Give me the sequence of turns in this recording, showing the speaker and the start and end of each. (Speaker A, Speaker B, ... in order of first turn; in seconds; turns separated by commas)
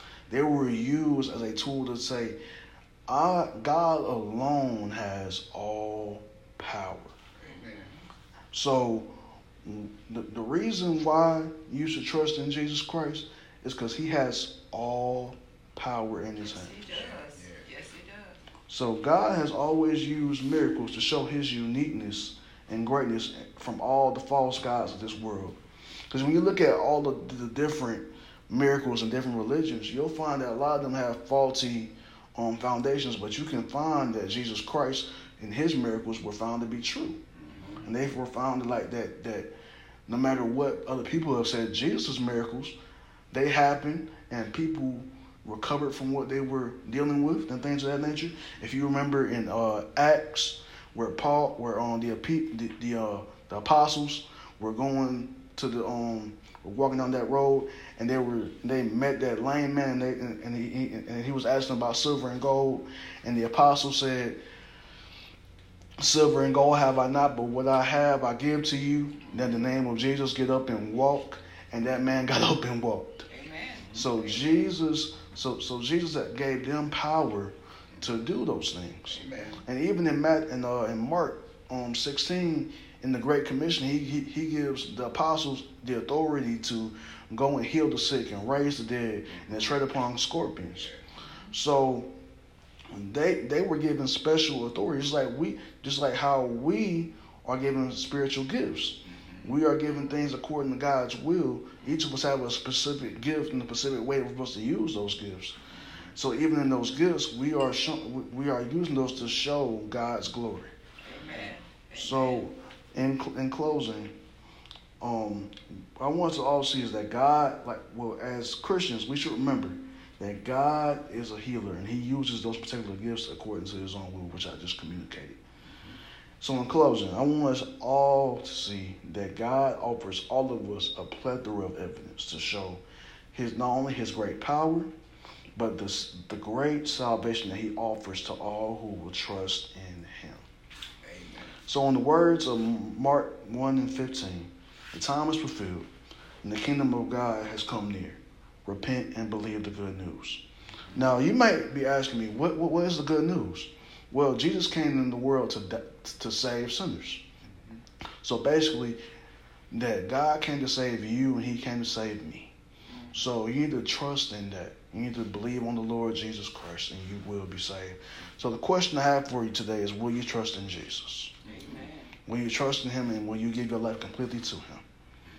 Speaker A: 0.3-2.4, Speaker A: 3.1-7.1, Speaker B: 7.4-7.9, Speaker A: 8.5-16.9, Speaker C: 16.4-18.4, Speaker B: 16.9-17.6, Speaker A: 18.7-37.2, Speaker B: 37.4-37.8, Speaker A: 37.8-39.5, Speaker A: 40.1-42.7, Speaker A: 43.3-64.4, Speaker A: 66.0-73.3, Speaker C: 73.3-74.4, Speaker A: 73.9-90.9, Speaker B: 79.1-79.6, Speaker A: 91.5-92.1, Speaker A: 92.9-105.5, Speaker A: 106.1-110.7, Speaker C: 111.0-112.4, Speaker A: 111.9-114.1, Speaker A: 115.0-125.4, Speaker A: 126.4-134.9, Speaker A: 135.6-140.4, Speaker B: 141.0-141.5, Speaker A: 141.7-145.9, Speaker A: 146.4-150.4, Speaker A: 150.9-157.2, Speaker A: 158.2-159.0, Speaker A: 159.7-162.5, Speaker A: 163.1-171.4, Speaker B: 171.4-171.8, Speaker C: 171.4-172.1, Speaker A: 172.2-174.8